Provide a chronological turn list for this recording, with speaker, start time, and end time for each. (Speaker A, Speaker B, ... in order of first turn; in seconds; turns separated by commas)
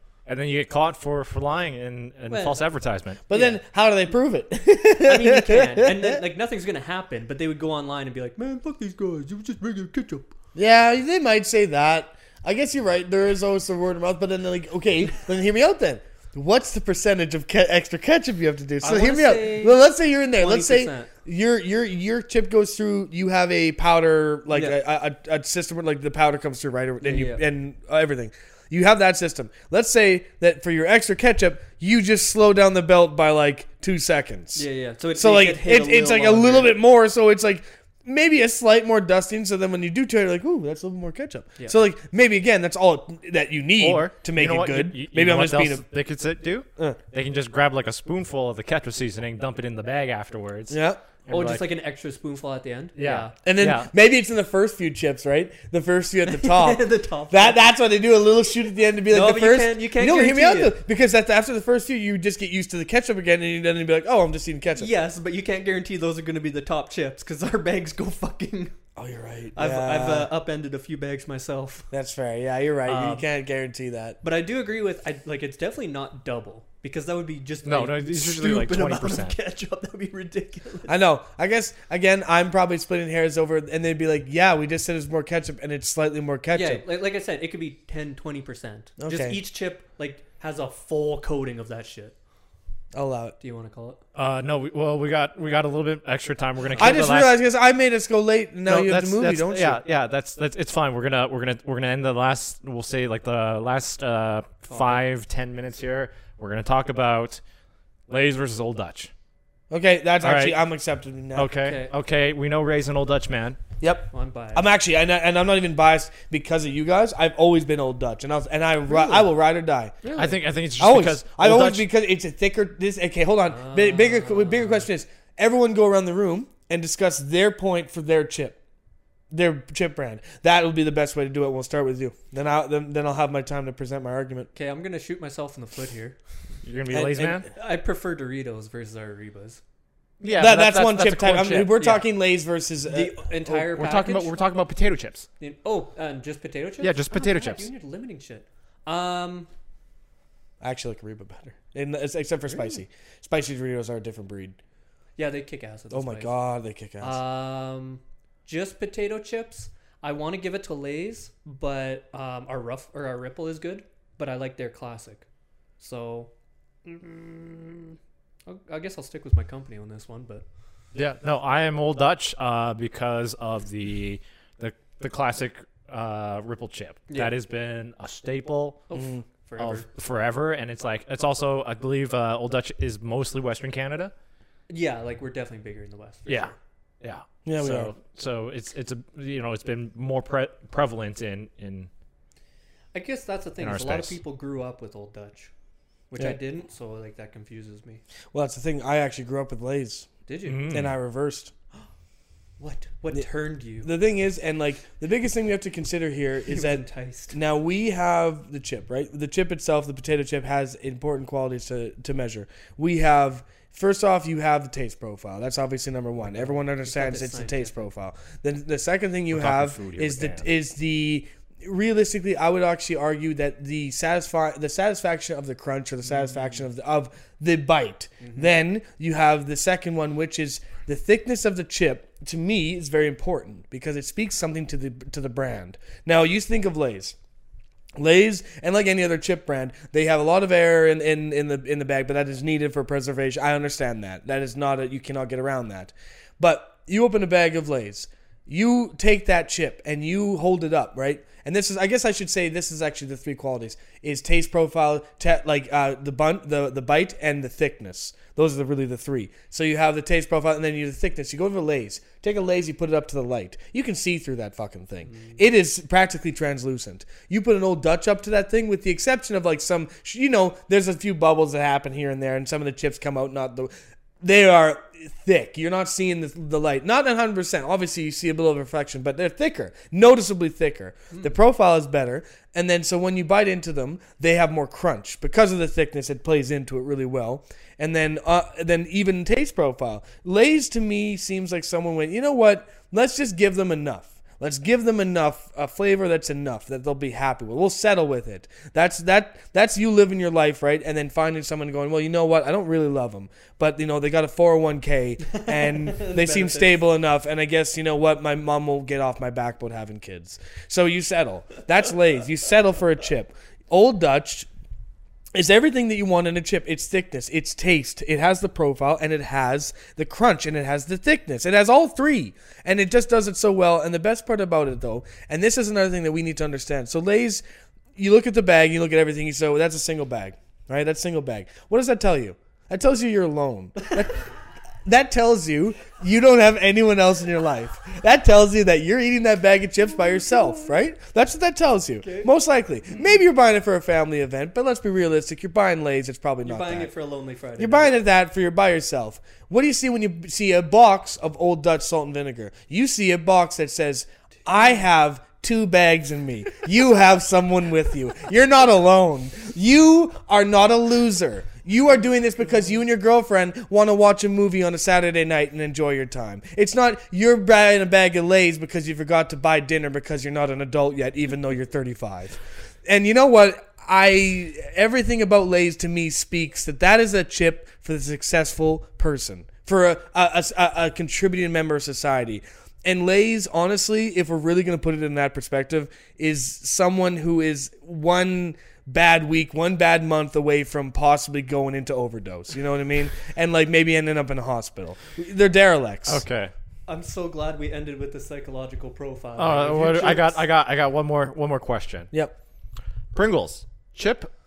Speaker A: 0.2-3.2, Speaker B: 2.3-2.6, Speaker C: 3.3-6.2, Speaker B: 3.3-3.6, Speaker B: 5.0-10.3, Speaker C: 10.5-45.8, Speaker B: 18.8-19.8, Speaker B: 20.3-21.1, Speaker B: 24.5-24.8, Speaker B: 27.0-27.4, Speaker B: 34.5-36.8, Speaker A: 43.8-51.7, Speaker C: 50.7-51.0, Speaker B: 51.3-53.3, Speaker A: 53.0-53.9, Speaker C: 53.4-64.9, Speaker B: 56.3-57.6, Speaker B: 59.1-60.8, Speaker B: 64.8-68.7, Speaker C: 69.0-70.3, Speaker B: 69.5-71.9, Speaker C: 71.9-74.2, Speaker B: 72.8-73.2, Speaker B: 74.2-80.9, Speaker A: 77.6-79.3, Speaker C: 80.9-86.8, Speaker B: 86.5-92.1, Speaker C: 89.0-89.4, Speaker C: 92.9-93.3, Speaker B: 93.4-94.0, Speaker A: 94.1-97.4, Speaker C: 96.8-99.8, Speaker A: 98.7-107.4, Speaker B: 104.7-105.0, Speaker A: 108.1-109.1, Speaker C: 109.7-111.5, Speaker A: 110.2-110.5, Speaker A: 111.3-113.6, Speaker B: 111.5-111.9, Speaker C: 113.8-120.0, Speaker B: 114.1-114.7, Speaker B: 118.9-119.2, Speaker B: 120.0-120.4, Speaker A: 120.2-121.8, Speaker C: 120.8-128.6, Speaker B: 123.5-124.9, Speaker C: 129.3-134.5, Speaker B: 134.5-136.2, Speaker A: 136.6-137.4, Speaker C: 136.9-137.4, Speaker B: 137.5-139.6, Speaker A: 140.2-141.8, Speaker C: 140.4-143.7, Speaker B: 141.8-142.1, Speaker B: 142.9-144.5, Speaker A: 143.7-145.3, Speaker B: 145.4-149.5, Speaker A: 146.8-147.7, Speaker C: 150.6-154.6, Speaker B: 152.5-152.8, Speaker B: 155.2-156.4, Speaker C: 155.9-157.2, Speaker B: 157.0-165.3, Speaker B: 165.8-166.3, Speaker B: 166.8-170.4, Speaker A: 170.9-178.9, Speaker B: 177.1-177.3, Speaker B: 178.9-179.9, Speaker C: 178.9-179.2, Speaker A: 179.6-184.1, Speaker B: 184.7-186.6, Speaker A: 186.3-191.9, Speaker C: 187.4-187.9, Speaker B: 192.9-195.5, Speaker A: 193.6-194.2, Speaker B: 196.1-198.0, Speaker C: 198.3-200.1, Speaker B: 200.3-200.7, Speaker A: 200.4-200.9, Speaker C: 200.7-201.5, Speaker B: 202.6-203.9, Speaker C: 203.8-237.2, Speaker B: 206.5-207.3, Speaker B: 216.4-217.8, Speaker A: 219.3-220.5, Speaker B: 226.1-226.6, Speaker B: 228.2-228.5, Speaker C: 237.9-314.5, Speaker B: 265.1-265.4, Speaker B: 305.2-306.9, Speaker C: 315.3-327.4, Speaker C: 327.9-334.3, Speaker C: 334.8-346.9, Speaker B: 340.2-340.7, Speaker B: 342.0-342.3, Speaker B: 346.4-348.0, Speaker C: 347.6-396.2, Speaker A: 396.1-396.5, Speaker B: 396.9-400.4, Speaker A: 399.4-402.1, Speaker A: 403.1-404.3